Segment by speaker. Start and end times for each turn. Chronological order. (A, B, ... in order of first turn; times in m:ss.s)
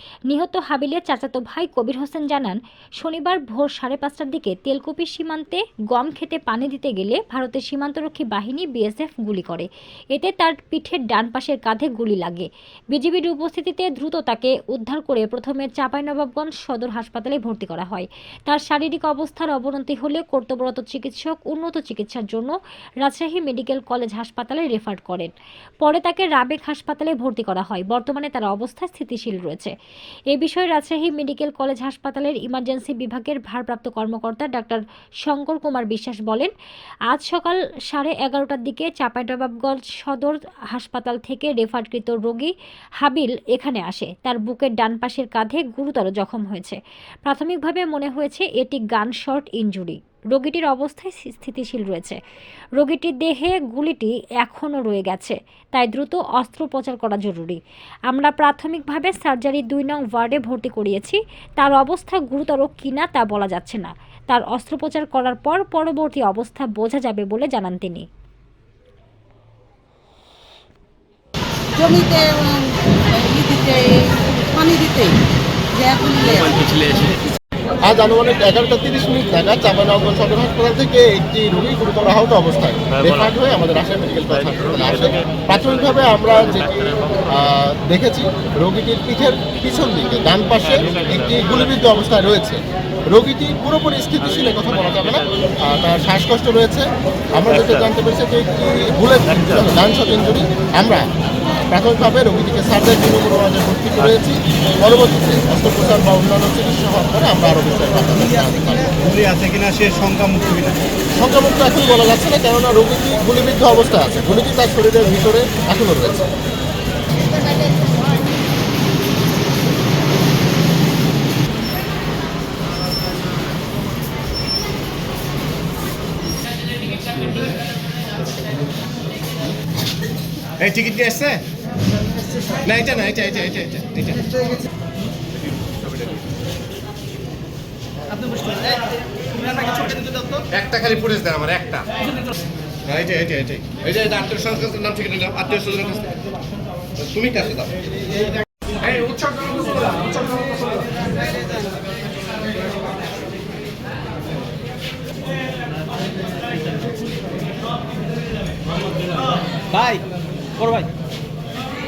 0:00.3-0:25.3 A
0:25.8-0:29.7 A
0:30.3-0:36.5 A
0:37.1-0:52.2 A
0:52.8-1:08.1 A
1:11.7-1:15.2 B
1:15.7-1:17.1 B
1:17.9-1:41.0 C
1:41.7-1:48.9 C
1:49.0-1:50.8 D
1:51.2-1:56.3 C
2:10.6-2:11.4 D
2:12.6-2:14.4 D
2:18.1-2:18.8 D
2:18.1-2:18.8 E
2:19.3-2:20.4 E
2:20.4-2:21.8 D
2:22.9-2:26.1 D
2:27.0-2:27.7 D
2:28.8-2:31.0 D
2:39.7-2:40.0 E
2:40.6-2:40.9 E